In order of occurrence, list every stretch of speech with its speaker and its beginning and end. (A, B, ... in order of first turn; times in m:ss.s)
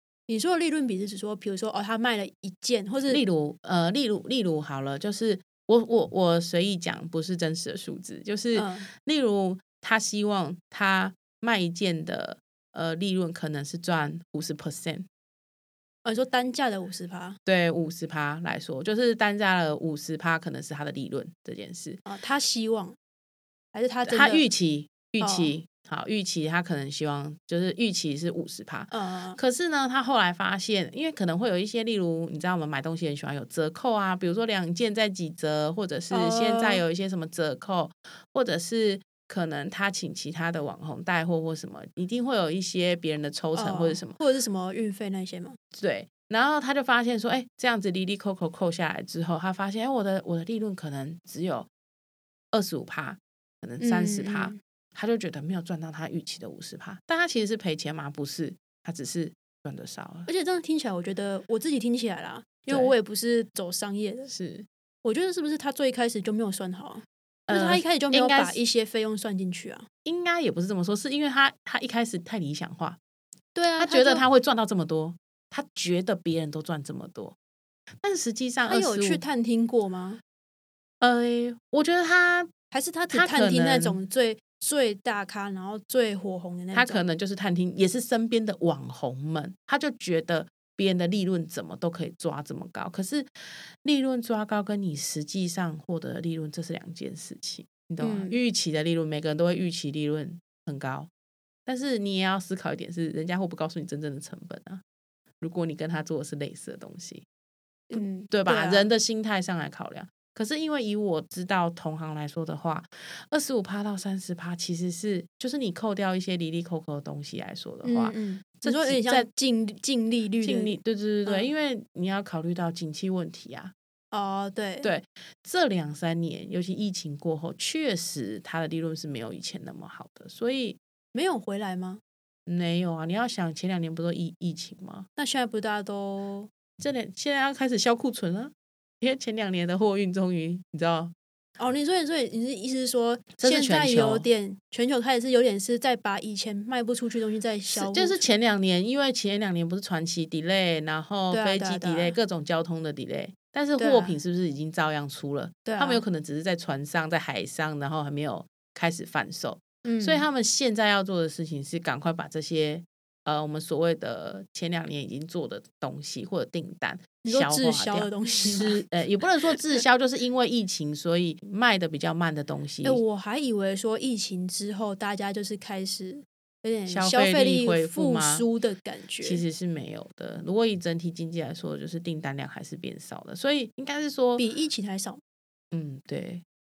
0:00.3-0:03.2 A
0:03.1-0:15.0 B
0:08.5-0:08.9 A
0:16.0-0:17.4 A
0:17.4-0:22.0 B
0:22.0-0:23.0 A
0:23.7-0:24.4 A
0:24.0-0:44.2 B
0:25.2-0:25.5 A
0:28.9-0:29.4 A
0:36.1-0:36.8 A
0:43.5-0:45.6 A
0:45.7-0:51.7 B
0:52.5-1:00.3 B
0:53.8-0:54.6 A
1:00.3-1:04.3 A
1:02.7-1:02.9 B
1:04.3-1:04.6 B
1:05.0-1:09.9 A
1:07.5-1:08.6 B
1:10.0-1:13.0 B
1:13.5-1:14.2 A
1:13.8-1:17.3 B
1:18.0-1:19.2 B
1:18.7-1:20.2 A
1:21.0-1:22.5 B
1:22.7-1:27.0 A
1:23.1-1:24.0 B
1:26.7-1:33.3 B
1:33.8-1:41.1 B
1:38.0-1:38.4 A
1:41.6-1:44.8 B
1:45.4-1:47.2 B
1:47.9-1:48.8 A
1:47.9-1:59.3 B
1:57.8-2:01.5 A
2:00.4-2:03.7 B
2:04.1-2:04.9 A
2:04.8-2:10.8 B
2:11.1-2:12.0 A
2:12.5-2:15.1 B
2:15.2-2:16.5 A
2:16.8-2:21.1 B
2:21.6-2:28.2 A
2:23.4-2:24.2 B
2:27.8-2:53.0 B
2:31.3-2:32.2 A
2:33.8-2:34.2 A
2:35.6-2:36.0 A
2:39.8-2:40.2 A
2:47.2-2:48.8 A
2:52.8-2:59.4 A
2:56.9-2:58.4 B
2:59.2-3:04.4 B
3:04.4-3:05.2 A
3:05.7-3:06.4 B